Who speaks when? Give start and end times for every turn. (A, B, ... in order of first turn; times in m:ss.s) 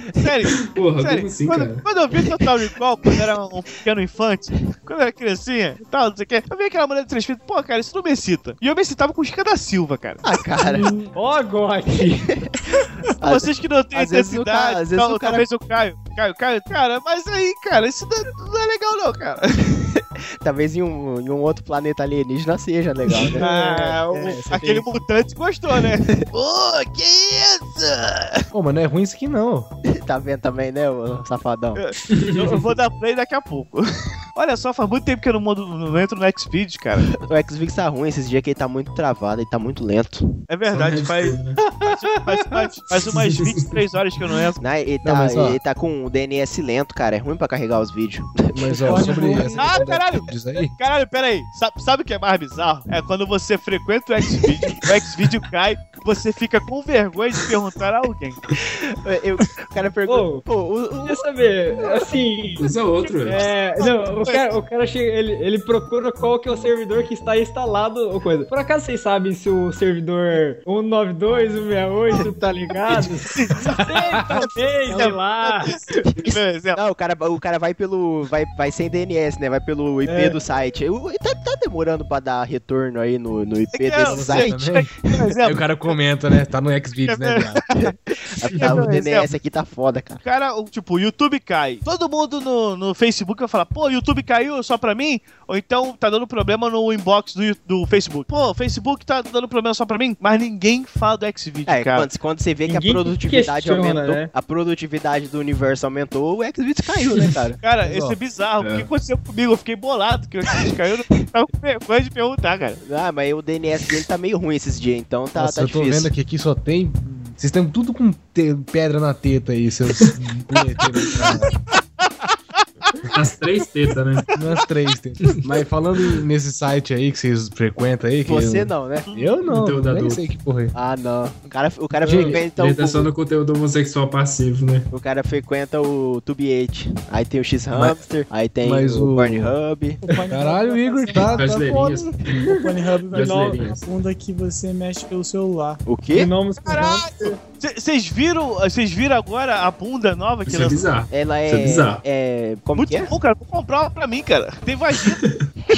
0:00.2-0:10.2 A
0:00.7-0:01.9 B
0:10.2-0:11.0 C
0:10.8-0:12.3 D
0:12.4-0:15.4 C
0:13.2-0:19.7 A
0:20.0-0:24.9 C
0:23.1-0:23.4 B
0:23.4-0:28.5 A
0:28.5-0:29.7 E
0:29.8-0:31.8 C
0:31.8-0:37.1 A
0:32.1-0:32.6 B
0:37.2-0:40.3 C
0:40.5-0:44.6 A
0:40.7-0:41.6 B
0:43.2-0:43.6 B
0:44.6-0:49.1 C
0:45.0-0:45.6 E
0:48.5-0:50.7 E
0:48.8-0:49.8 F
0:49.6-0:58.4 A
0:58.6-1:01.2 C
1:00.1-1:00.4 D
1:01.0-1:02.6 D
1:02.6-1:03.4 B
1:03.3-1:16.0 D
1:03.3-1:04.5 A
1:12.9-1:16.8 A
1:16.2-1:24.7 C
1:20.1-1:20.4 D
1:23.7-1:25.6 A
1:24.0-1:27.6 E
1:27.1-1:27.9 A
1:27.8-1:30.2 C
1:28.5-1:29.3 A
1:28.6-1:28.9 E
1:30.2-1:42.1 A
1:41.7-1:47.6 C
1:42.7-1:44.3 D
1:47.6-1:52.8 A
1:47.8-1:48.2 E
1:48.6-1:48.9 B
1:52.8-1:56.1 C
1:55.4-2:01.5 E
2:02.0-2:02.6 A
2:03.1-2:04.3 B
2:04.3-2:10.7 E
2:08.3-2:09.1 C
2:09.1-2:09.4 A
2:09.5-2:10.2 B
2:10.8-2:13.1 C
2:12.0-2:12.4 E
2:12.0-2:14.9 B
2:14.9-2:20.0 C
2:17.7-2:18.0 E
2:18.6-2:19.5 E
2:20.0-2:21.4 F
2:20.3-2:22.5 E
2:21.4-2:22.6 B
2:22.6-2:25.8 F
2:23.1-2:23.6 D
2:23.1-2:23.9 B
2:25.9-2:26.3 C
2:26.1-2:27.4 D
2:26.6-2:30.8 A
2:30.5-2:32.0 B
2:31.1-2:33.1 C
2:32.8-2:35.3 A